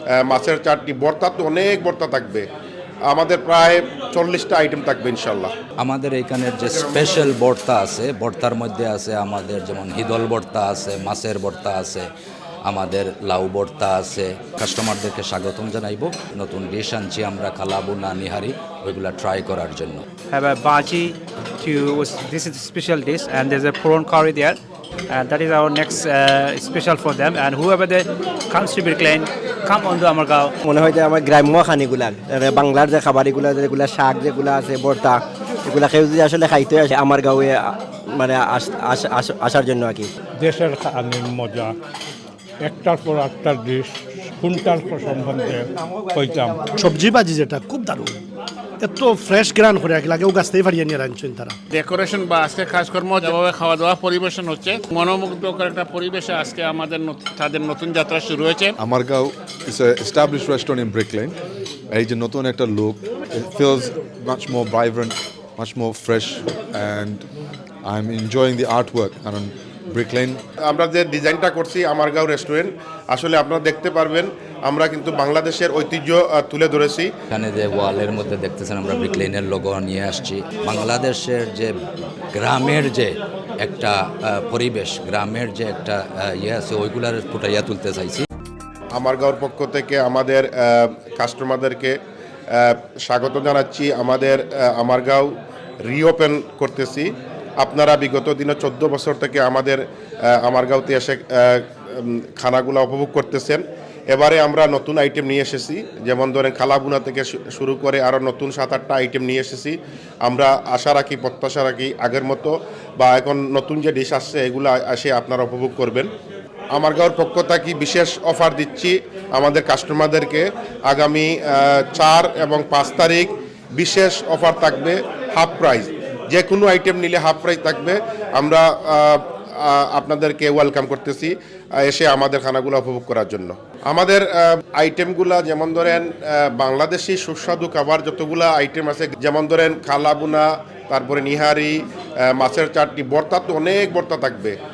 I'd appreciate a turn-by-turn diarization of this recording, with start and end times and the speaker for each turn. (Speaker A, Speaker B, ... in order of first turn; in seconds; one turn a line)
Speaker A: 0.2-2.4
Speaker A: 3.1-5.5
Speaker B: 5.8-12.1
Speaker B: 12.7-20.0
Speaker C: 20.3-24.6
Speaker C: 25.1-30.5
Speaker D: 30.6-40.1
Speaker E: 40.4-41.8
Speaker E: 42.6-46.6
Speaker F: 46.7-48.1
Speaker F: 48.8-51.5
Speaker G: 51.8-58.7
Speaker H: 58.8-61.4
Speaker H: 61.9-67.2
Speaker H: 67.8-70.4
Speaker A: 70.7-77.1
Speaker B: 77.3-81.7
Speaker B: 82.3-88.2
Speaker A: 89.0-91.9
Speaker A: 92.6-95.3
Speaker A: 95.8-99.8
Speaker A: 100.3-116.1
Speaker A: 116.7-141.8
Speaker A: 142.3-144.5